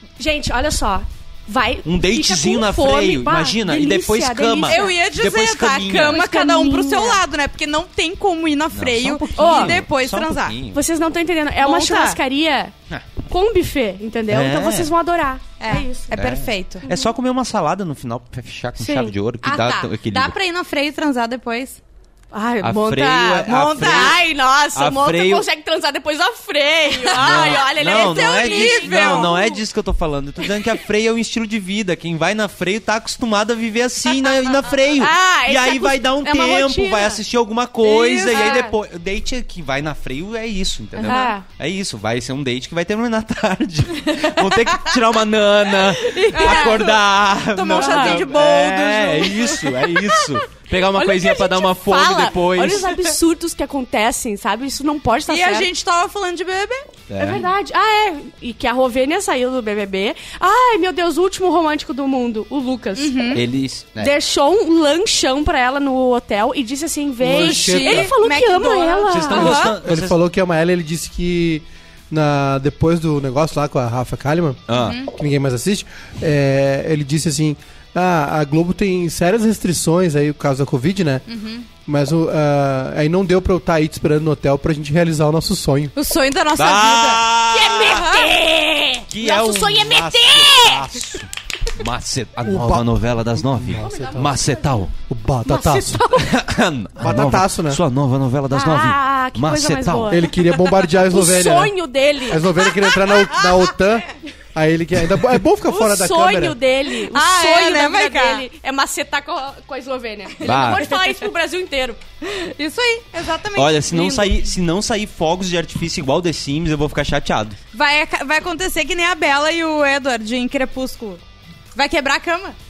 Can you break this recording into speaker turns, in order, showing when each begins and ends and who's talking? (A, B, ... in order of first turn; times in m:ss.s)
0:00.2-0:05.0 A
0:01.8-0:06.2 B
0:04.7-0:10.6 C
0:06.1-0:07.2 A
0:08.7-0:10.8 B
0:09.4-0:09.8 A
0:10.7-0:12.7 A
0:11.6-0:12.2 C
0:13.3-0:16.2 A
0:14.3-0:14.9 B
0:15.6-0:16.8 C
0:16.1-0:20.3 B
0:16.8-0:17.1 A
0:19.4-0:21.8 C
0:22.3-0:29.5 A
0:22.6-0:24.2 B
0:23.7-0:24.1 C
0:24.7-0:25.4 B
0:26.9-0:29.6 C
0:27.2-0:52.9 B
0:35.0-0:37.2 A
0:37.8-0:38.6 C
0:38.3-0:38.7 A
0:41.0-0:41.3 C
0:41.0-0:41.4 A
0:46.0-0:46.9 A
0:46.2-0:50.2 C
0:47.8-0:48.3 A
0:50.9-0:55.7 A
0:55.3-0:56.8 C
0:57.1-0:57.4 B
0:57.2-1:03.4 A
1:03.0-1:03.4 C
1:03.3-1:04.1 B
1:04.0-1:09.6 A
1:07.2-1:08.1 D
1:07.3-1:09.8 C
1:09.1-1:10.2 B
1:09.3-1:21.2 D
1:14.7-1:15.0 B
1:14.7-1:15.1 C
1:21.3-1:21.6 C
1:21.8-1:25.9 D
1:25.9-1:27.3 C
1:26.5-1:28.2 B
1:27.5-1:31.0 A
1:29.1-1:34.9 B
1:32.4-1:34.4 D
1:33.8-1:34.8 A
1:35.0-1:36.0 D
1:35.5-1:36.3 A
1:36.2-1:40.2 B
1:37.0-1:37.8 D
1:38.5-1:40.3 A
1:40.1-1:41.7 D
1:40.9-1:42.6 A
1:42.2-1:46.6 D
1:42.6-1:43.7 C
1:45.7-1:52.0 A
1:47.0-1:48.4 C
1:50.4-1:50.8 B
1:50.5-1:51.0 C
1:52.2-1:54.4 C
1:53.6-1:57.6 B
1:57.7-2:01.2 C
2:01.7-2:02.6 C